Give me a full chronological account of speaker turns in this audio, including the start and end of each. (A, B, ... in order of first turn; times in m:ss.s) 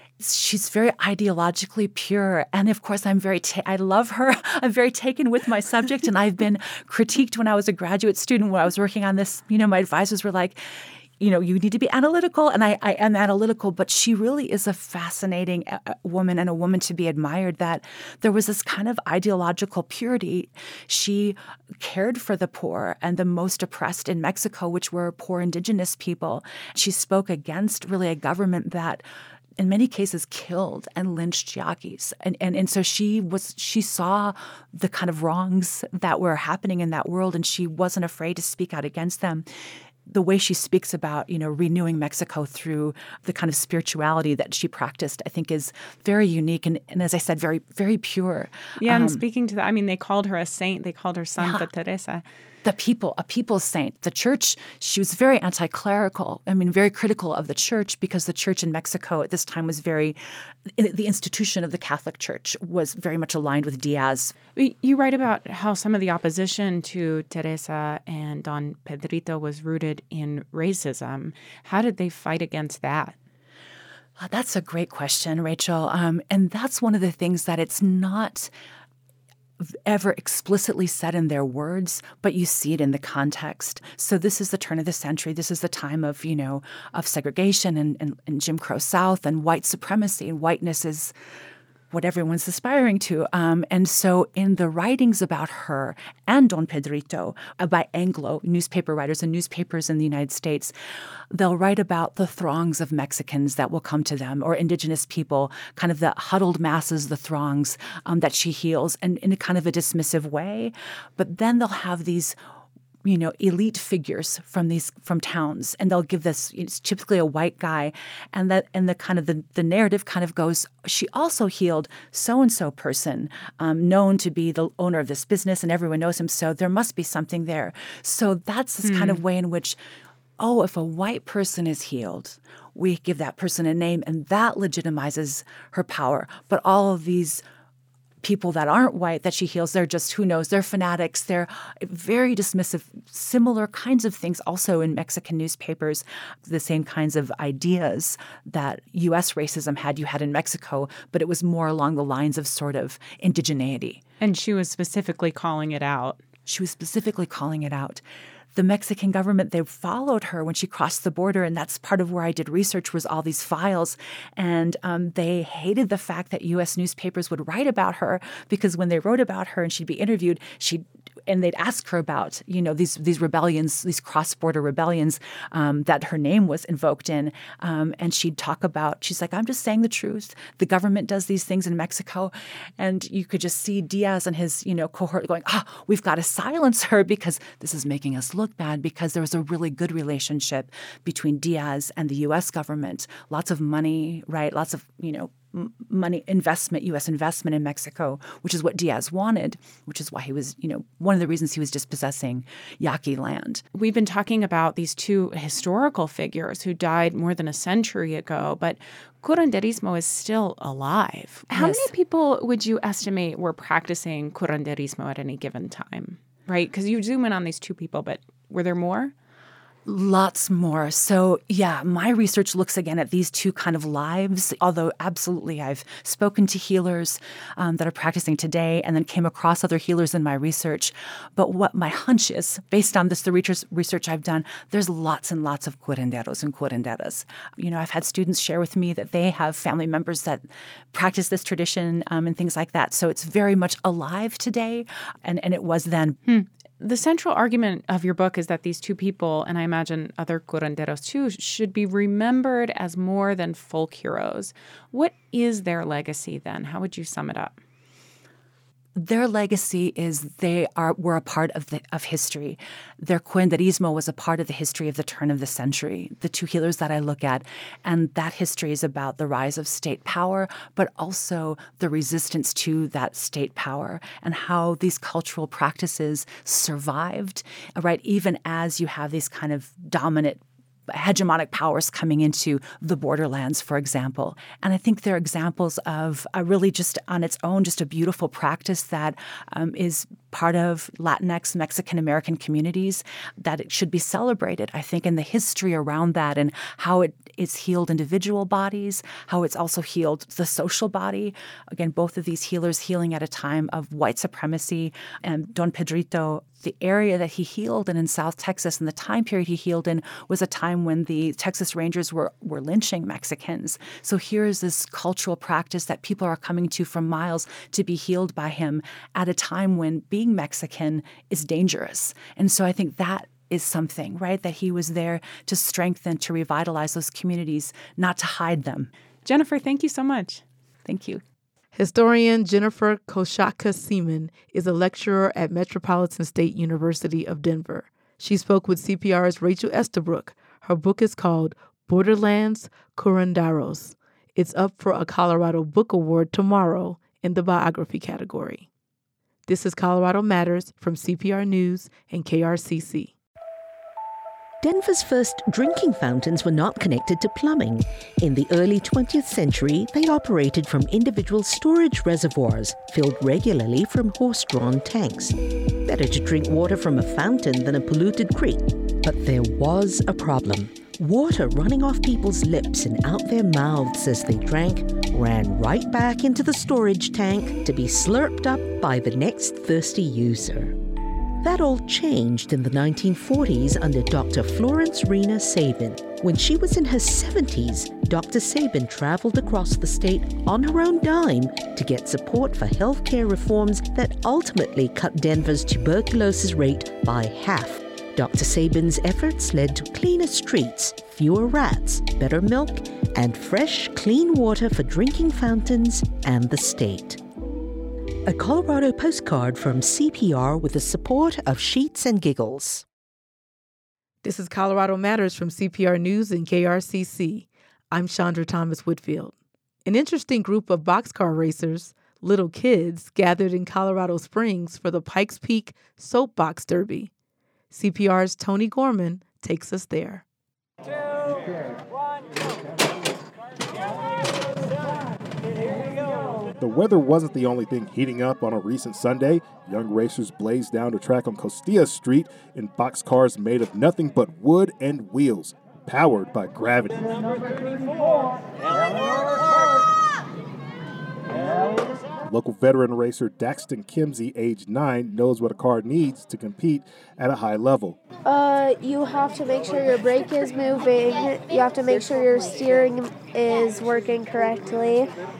0:00.2-0:29.0 A
0:29.6-0:39.5 A
0:40.0-0:49.2 A
0:48.8-0:52.2 B
0:51.4-0:51.7 A
0:52.6-1:04.4 A
1:04.5-1:13.2 B
1:14.2-1:18.5 A
1:19.6-1:31.1 A
1:31.9-1:40.7 A
1:41.3-1:52.4 A
1:53.0-2:09.8 A
2:08.8-2:09.2 B
2:10.4-2:17.4 A
2:18.2-2:34.0 A
2:34.2-2:36.2 B
2:36.4-2:38.0 A
2:38.5-3:23.6 A
3:23.7-3:39.1 B
3:31.5-3:31.9 A
3:39.8-4:06.2 A
4:06.2-4:17.6 B
4:18.9-5:28.9 A
5:29.2-5:30.4 B
5:30.8-5:31.2 A
5:31.7-5:48.7 C
5:49.5-5:53.1 C
5:54.6-6:20.8 D
6:21.4-6:47.2 D
6:48.3-6:52.8 D
6:54.2-7:07.1 C
7:07.7-7:10.2 C
7:16.6-7:27.7 E
7:32.2-7:38.0 E
7:38.2-7:45.1 F